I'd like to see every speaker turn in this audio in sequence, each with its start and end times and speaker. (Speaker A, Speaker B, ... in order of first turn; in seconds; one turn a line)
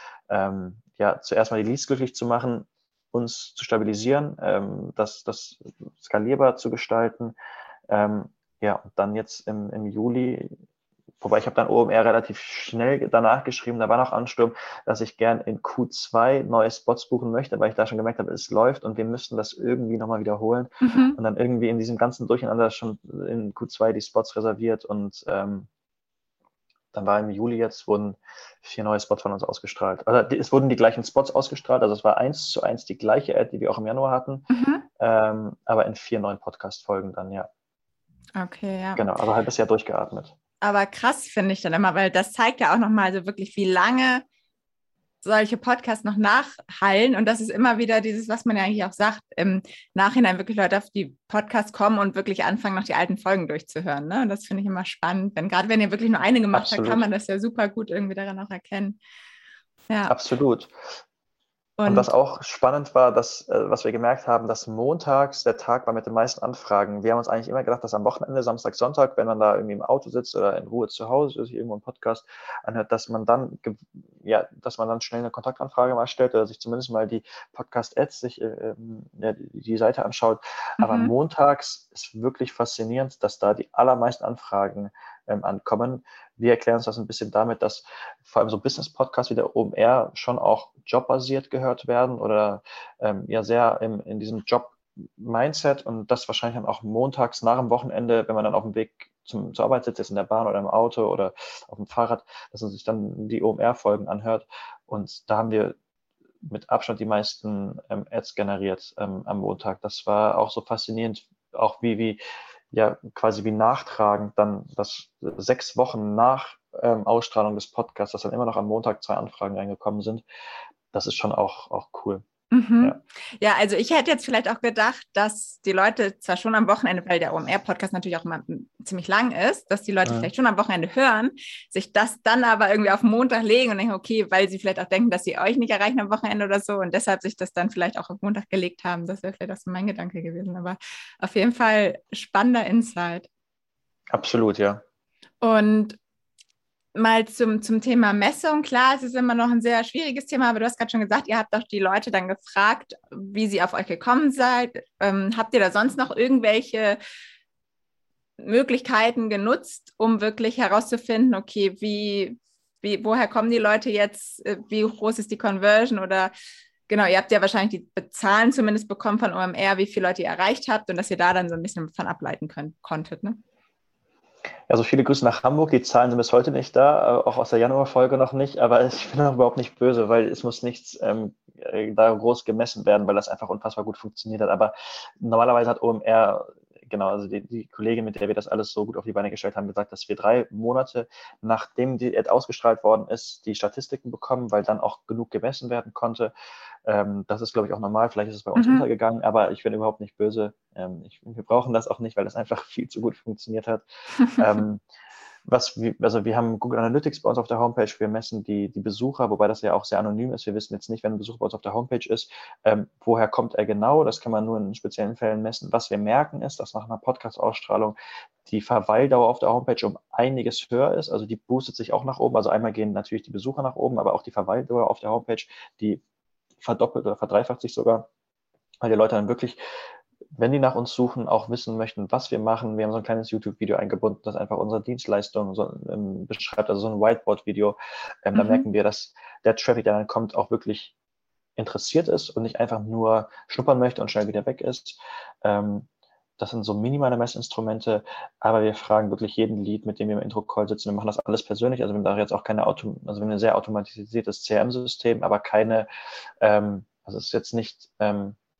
Speaker A: 0.3-7.4
Speaker A: 7.9-10.6
Speaker A: 11.2-25.7
Speaker B: 20.8-21.2
Speaker A: 26.9-34.4
Speaker B: 34.5-34.9
Speaker A: 35.0-37.5
Speaker B: 38.4-39.1
Speaker A: 39.0-40.3
Speaker B: 40.6-44.2
Speaker B: 45.2-59.0
Speaker A: 56.5-57.1
Speaker B: 59.9-60.1
Speaker A: 60.1-60.7
Speaker B: 61.8-62.1
Speaker A: 61.9-105.8
Speaker B: 80.8-81.1
Speaker A: 106.4-112.2
Speaker A: 112.7-120.2
Speaker A: 120.9-122.2
Speaker B: 122.5-143.3
Speaker A: 130.1-130.3
Speaker A: 144.1-144.8
Speaker B: 145.4-146.0
Speaker B: 146.9-157.0
Speaker B: 158.4-166.3
Speaker B: 166.9-173.4
Speaker A: 174.7-196.3
Speaker A: 196.9-204.8
Speaker B: 198.6-198.8
Speaker A: 205.5-226.0
Speaker A: 226.6-228.1
Speaker A: 228.8-229.6
Speaker A: 230.4-240.9
Speaker B: 238.4-238.7
Speaker A: 241.6-245.9
Speaker A: 246.4-255.9
Speaker A: 256.4-258.4